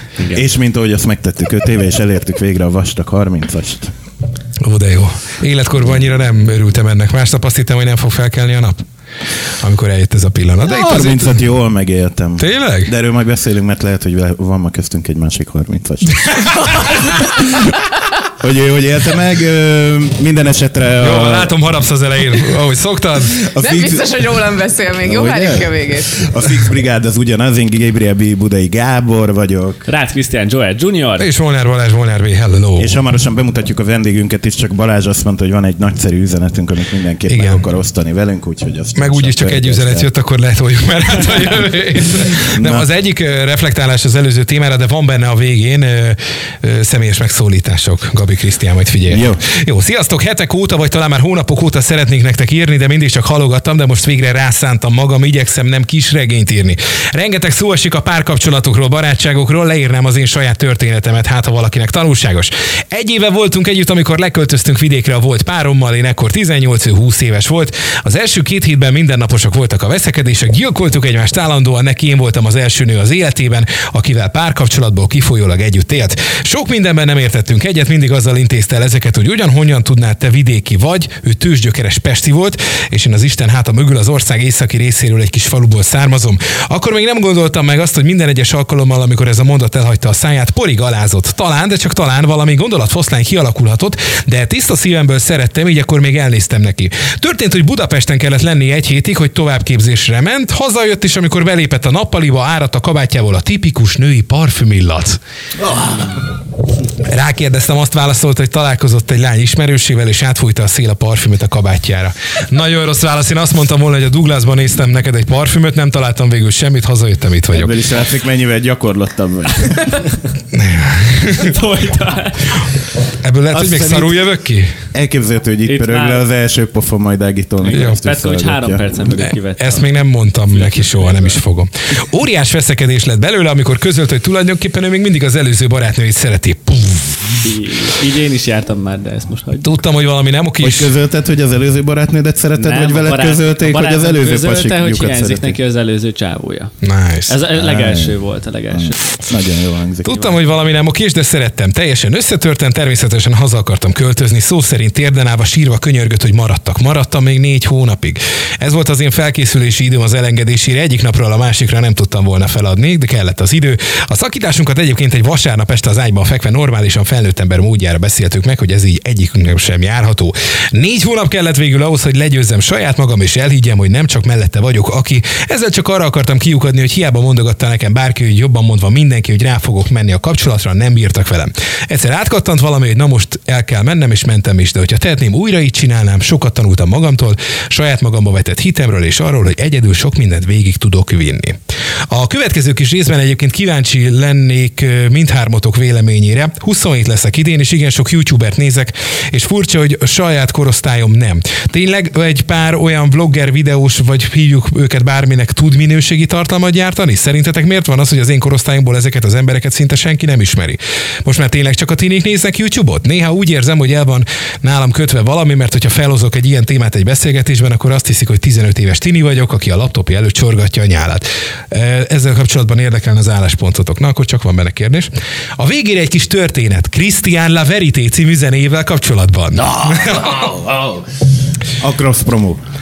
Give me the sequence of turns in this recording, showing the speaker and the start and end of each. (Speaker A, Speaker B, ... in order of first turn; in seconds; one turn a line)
Speaker A: 0.2-0.5
Speaker B: 0.3-3.9
Speaker C: 4.6-8.8
Speaker C: 9.6-11.4
Speaker B: 10.6-17.7
Speaker C: 12.4-12.9
Speaker C: 16.2-17.5
Speaker B: 18.3-21.5
Speaker C: 21.0-23.4
Speaker B: 23.4-24.1
Speaker D: 23.6-26.3
Speaker B: 25.0-29.9
Speaker A: 29.9-31.3
Speaker C: 31.2-33.0
Speaker B: 32.8-40.1
Speaker C: 37.3-37.6
Speaker C: 39.0-105.2
Speaker B: 42.5-42.9
Speaker B: 49.1-49.4
Speaker B: 105.6-106.2
Speaker C: 107.0-117.9
Speaker B: 117.5-120.1
Speaker C: 120.5-121.5
Speaker A: 121.3-122.6
Speaker C: 123.2-124.8
Speaker B: 123.5-124.2
Speaker B: 124.9-128.8
Speaker A: 125.7-126.2
Speaker A: 127.7-129.9
Speaker C: 127.7-128.0
Speaker C: 129.2-137.5
Speaker A: 130.5-131.4
Speaker A: 137.4-139.7
Speaker C: 139.6-140.9
Speaker B: 140.6-145.6
Speaker A: 142.6-146.7
Speaker C: 146.8-147.3
Speaker A: 147.3-149.0
Speaker B: 147.5-148.2
Speaker B: 148.7-150.4
Speaker C: 150.0-191.6
Speaker C: 192.1-230.5
Speaker B: 229.6-231.1
Speaker B: 231.8-232.6